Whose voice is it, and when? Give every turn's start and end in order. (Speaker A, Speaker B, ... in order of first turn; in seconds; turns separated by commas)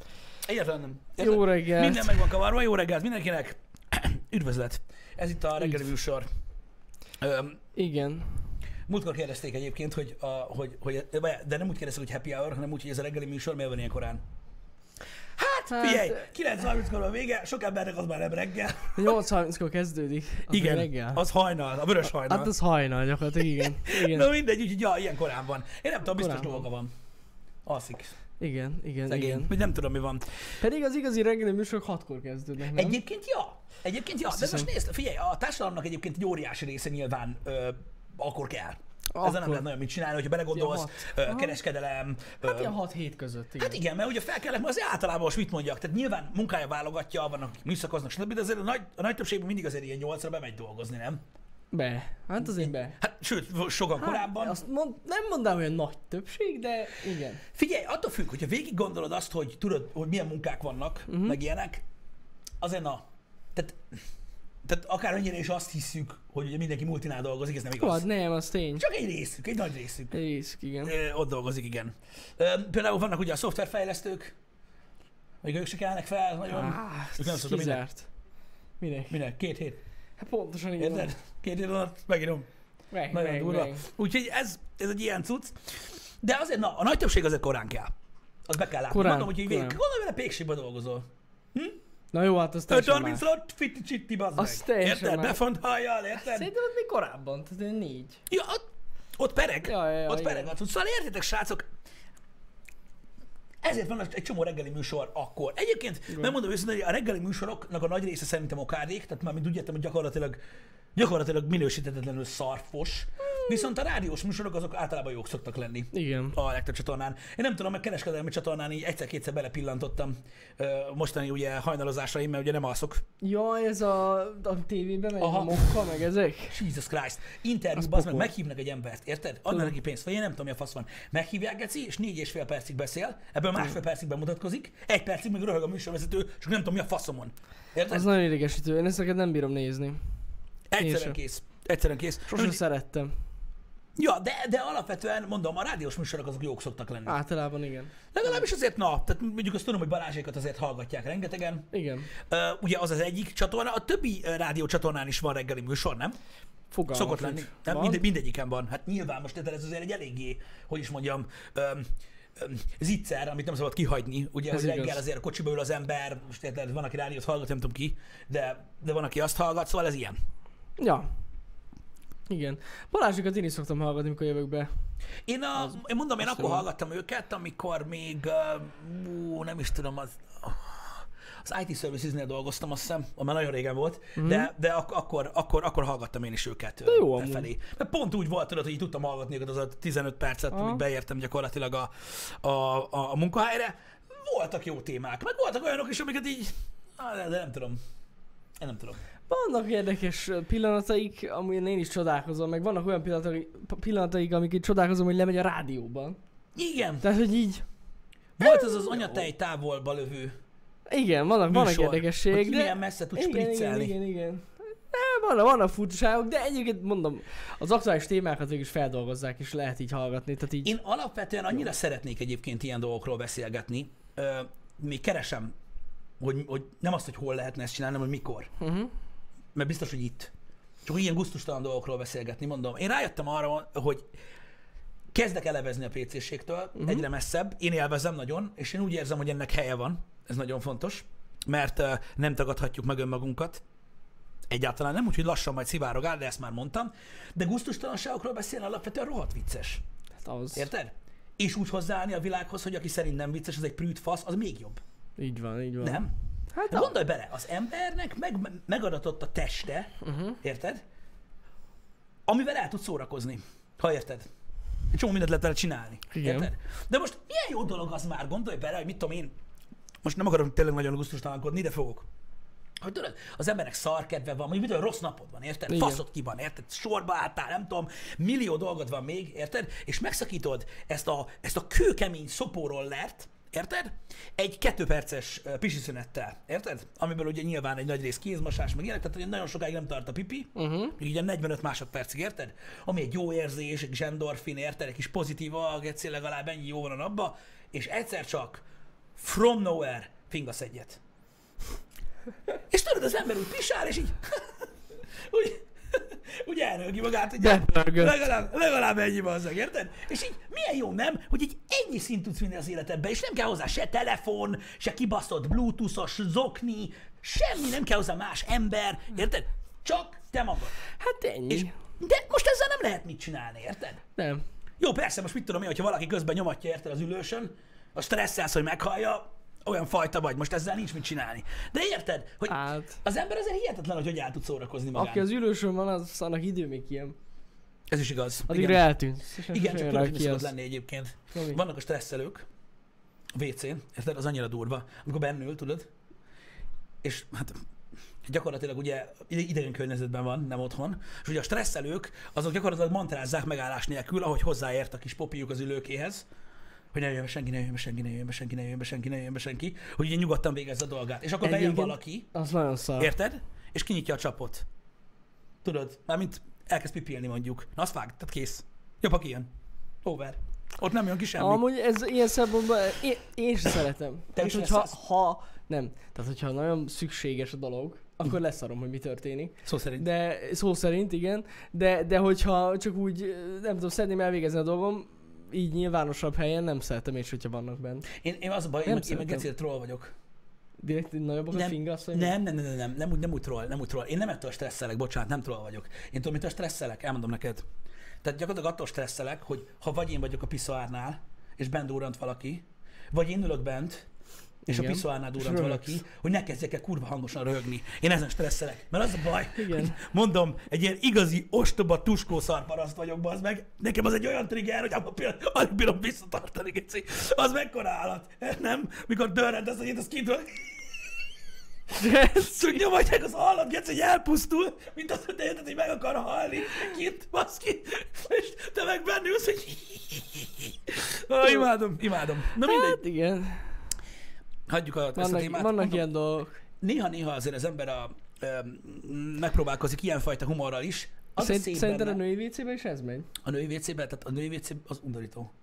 Speaker A: 0.4-6.3, Speaker B: 1.2-2.3, Speaker A: 7.2-7.6, Speaker B: 7.7-8.5, Speaker A: 8.9-14.2, Speaker A: 15.4-19.1, Speaker B: 15.7-16.2, Speaker B: 18.9-21.2, Speaker A: 20.5-22.5, Speaker B: 22.0-24.3, Speaker A: 23.7-26.9, Speaker B: 26.0-26.6, Speaker A: 27.6-28.1, Speaker B: 28.4-29.5, Speaker A: 29.0-30.3, Speaker B: 30.6-33.0, Speaker A: 32.7-42.7, Speaker B: 34.3-34.7, Speaker B: 39.1-39.6, Speaker B: 40.5-41.5, Speaker B: 42.4-43.8, Speaker A: 43.6-51.2, Speaker B: 51.7-53.0, Speaker A: 52.4-54.6, Speaker B: 54.0-57.4, Speaker A: 57.5-61.8, Speaker B: 61.1-61.4, Speaker A: 62.6-63.0, Speaker A: 63.5-64.0, Speaker A: 64.6-68.0, Speaker B: 67.7-68.8, Speaker A: 68.8-70.2, Speaker B: 70.1-70.9, Speaker A: 70.8-74.3, Speaker A: 75.4-77.8, Speaker B: 76.5-78.1, Speaker B: 78.8-79.2, Speaker A: 79.1-79.8, Speaker B: 80.2-81.1, Speaker A: 80.8-82.5, Speaker B: 82.9-83.8, Speaker A: 83.1-87.9, Speaker A: 88.5-91.8, Speaker B: 88.9-89.8, Speaker B: 92.1-93.2, Speaker A: 92.7-96.5, Speaker B: 94.4-95.4, Speaker B: 96.2-98.2, Speaker A: 98.3-98.7, Speaker A: 99.2-101.6, Speaker B: 99.6-100.5, Speaker A: 103.6-110.4, Speaker A: 110.9-123.0, Speaker B: 115.9-116.3, Speaker B: 123.2-126.6, Speaker A: 125.2-125.8, Speaker A: 126.5-138.1, Speaker B: 127.8-128.3, Speaker B: 137.9-140.0, Speaker A: 140.7-142.6, Speaker B: 140.8-141.2, Speaker B: 142.3-143.1, Speaker A: 144.0-147.2, Speaker B: 147.1-148.4, Speaker A: 148.1-151.7, Speaker B: 151.7-152.1, Speaker A: 152.3-156.2, Speaker B: 156.7-158.0, Speaker A: 156.9-170.2, Speaker B: 164.5-165.0, Speaker B: 170.8-171.1, Speaker B: 172.3-174.7, Speaker A: 175.2-197.8, Speaker B: 175.6-176.6, Speaker B: 184.2-184.5, Speaker B: 186.8-187.5, Speaker B: 190.5-190.8, Speaker A: 198.6-199.0, Speaker B: 199.3-206.2, Speaker A: 206.6-207.1, Speaker B: 207.0-207.6, Speaker A: 208.4-210.3, Speaker B: 208.4-209.3, Speaker B: 210.9-220.7, Speaker A: 211.5-213.9, Speaker A: 220.6-225.5, Speaker A: 226.2-228.5, Speaker B: 228.6-228.9, Speaker A: 229.5-230.3, Speaker A: 230.8-234.1, Speaker A: 235.1-243.6, Speaker B: 236.8-237.0, Speaker A: 244.5-249.8, Speaker B: 250.2-250.7, Speaker A: 250.5-254.8, Speaker B: 255.2-257.0, Speaker A: 255.8-256.1, Speaker A: 256.7-260.8, Speaker B: 260.0-260.4, Speaker A: 262.3-264.3, Speaker A: 264.9-269.3, Speaker B: 266.1-266.5, Speaker A: 270.0-272.1, Speaker A: 272.8-298.6, Speaker B: 275.7-276.0, Speaker B: 290.5-290.9, Speaker A: 299.2-301.0, Speaker A: 302.7-304.4, Speaker A: 305.3-320.8, Speaker B: 307.4-308.2, Speaker B: 321.0-321.7, Speaker A: 321.5-324.0, Speaker B: 324.1-324.4, Speaker A: 324.8-335.2, Speaker B: 332.5-332.9, Speaker B: 334.9-337.1, Speaker A: 337.9-338.9, Speaker B: 338.5-340.5, Speaker A: 339.5-342.4, Speaker B: 341.3-341.6, Speaker A: 343.3-345.9, Speaker A: 347.0-347.6, Speaker A: 348.2-356.2, Speaker A: 356.9-362.3, Speaker B: 361.4-363.1, Speaker A: 363.0-364.6, Speaker A: 365.6-369.5, Speaker A: 370.0-371.6, Speaker B: 371.4-388.1, Speaker A: 374.3-375.0, Speaker A: 379.6-380.1, Speaker A: 388.1-390.1, Speaker B: 388.8-389.4, Speaker B: 390.8-392.3, Speaker A: 391.5-397.6, Speaker A: 398.2-404.1, Speaker B: 404.7-406.0, Speaker A: 404.7-420.8, Speaker B: 409.5-410.0, Speaker B: 421.9-422.8, Speaker A: 422.3-433.0, Speaker B: 432.5-433.8, Speaker A: 434.7-436.0, Speaker B: 435.1-436.5, Speaker A: 436.8-442.2, Speaker B: 441.4-443.3, Speaker A: 443.4-445.5